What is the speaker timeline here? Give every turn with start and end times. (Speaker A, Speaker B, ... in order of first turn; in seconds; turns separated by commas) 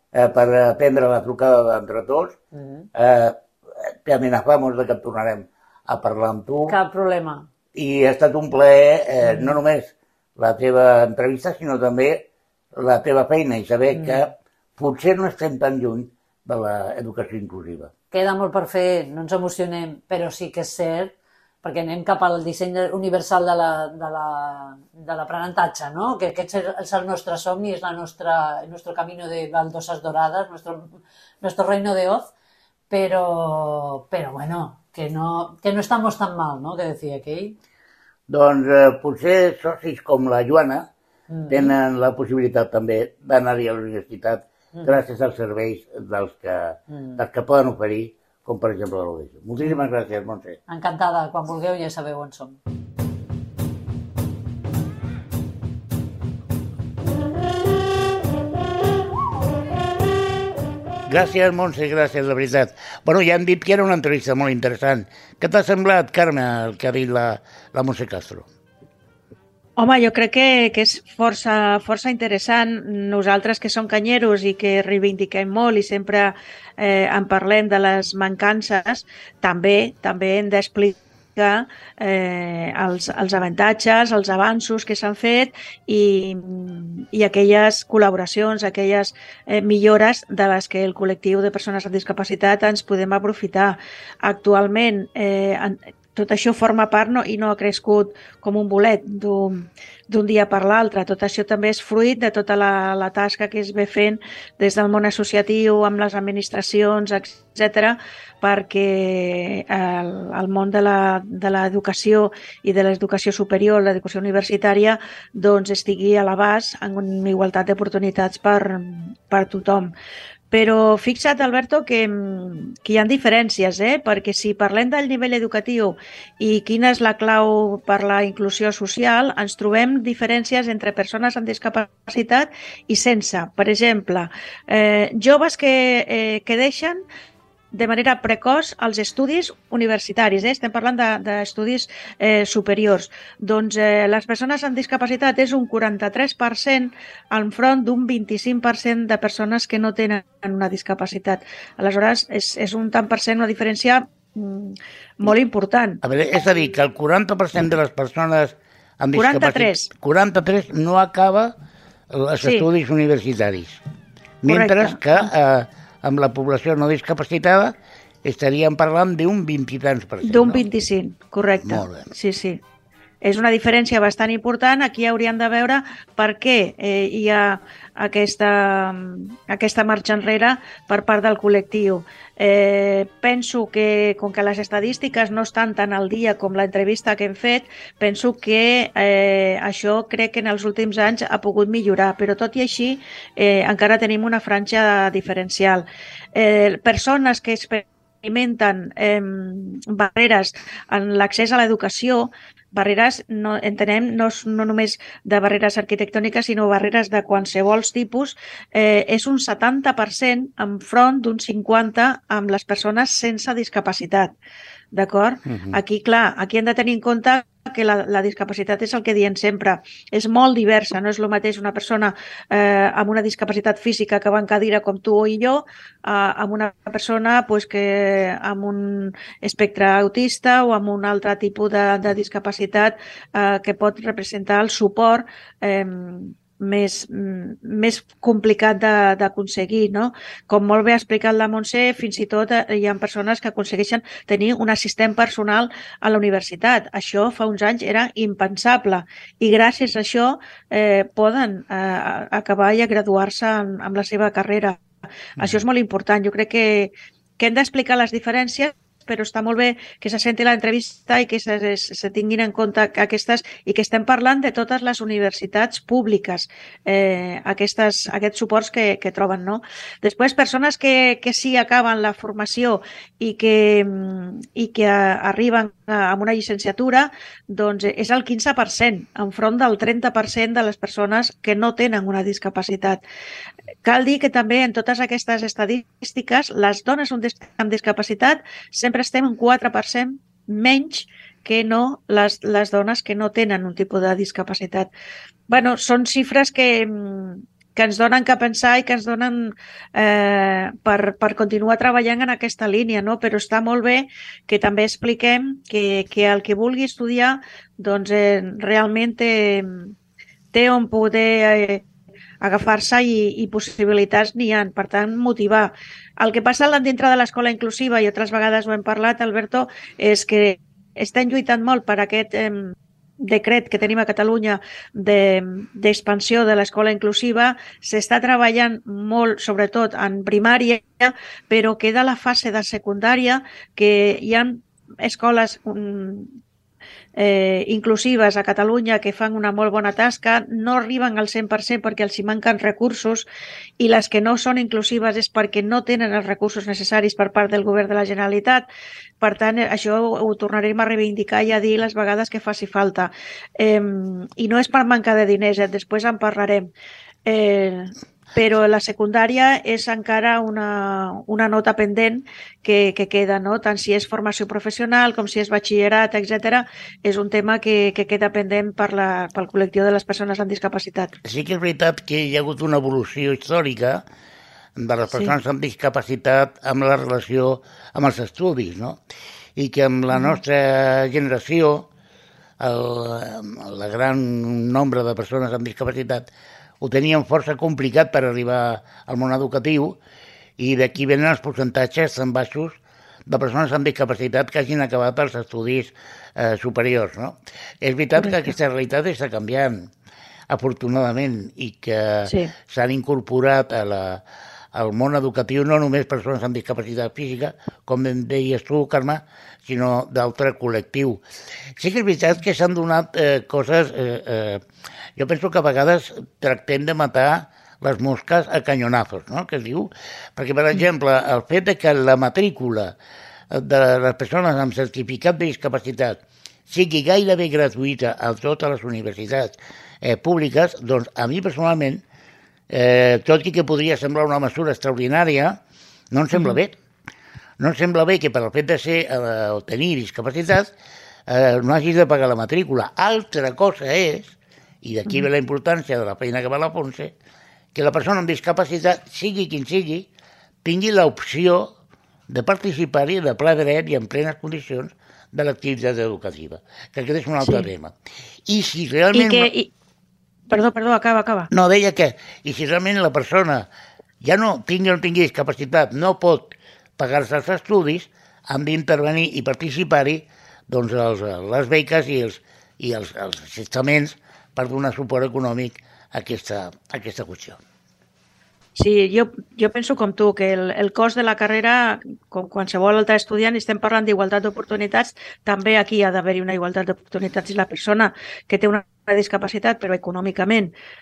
Speaker A: 0.1-2.4, Speaker B: 2.5-2.9, Speaker A: 2.9-6.7, Speaker B: 6.7-7.5, Speaker A: 7.7-17.9, Speaker B: 9.2-9.6, Speaker B: 13.9-14.2, Speaker B: 18.1-32.3, Speaker B: 32.9-37.6, Speaker A: 38.3-40.9, Speaker B: 41.3-41.7, Speaker A: 41.5-50.6, Speaker B: 44.7-45.0, Speaker B: 46.9-47.2, Speaker B: 50.7-52.6, Speaker A: 61.0-68.5, Speaker C: 69.8-119.9, Speaker C: 120.5-137.0, Speaker C: 137.7-156.0, Speaker A: 156.0-161.5, Speaker C: 159.1-159.9, Speaker A: 162.1-163.8, Speaker C: 162.4-162.7, Speaker A: 164.4-170.7, Speaker C: 164.4-165.1, Speaker C: 170.2-172.6, Speaker A: 171.6-172.1, Speaker C: 173.2-214.3, Speaker C: 214.9-254.8, Speaker A: 215.5-215.8, Speaker C: 255.4-283.0, Speaker C: 283.8-294.9, Speaker C: 295.5-309.9, Speaker C: 310.5-311.8, Speaker C: 312.4-336.4, Speaker C: 337.2-343.2, Speaker C: 343.8-348.6, Speaker C: 349.2-356.7, Speaker C: 357.2-371.1, Speaker A: 371.2-374.0, Speaker A: 374.8-379.0, Speaker C: 375.1-375.4, Speaker A: 379.6-381.9, Speaker C: 380.1-380.4, Speaker A: 382.6-386.3, Speaker A: 386.8-390.0, Speaker A: 390.6-399.9, Speaker A: 400.5-404.2, Speaker C: 402.2-402.5, Speaker A: 404.7-411.2, Speaker A: 411.8-414.6, Speaker A: 415.2-422.9, Speaker A: 423.5-432.0, Speaker A: 432.7-435.6, Speaker A: 436.1-436.8, Speaker A: 437.6-440.7, Speaker A: 441.3-447.1, Speaker A: 447.7-450.1, Speaker A: 450.6-451.7, Speaker A: 452.3-457.9, Speaker C: 457.4-457.7, Speaker A: 458.4-459.5, Speaker C: 459.1-459.7, Speaker C: 460.5-461.5, Speaker A: 461.5-463.7, Speaker A: 464.2-477.6, Speaker C: 478.8-490.7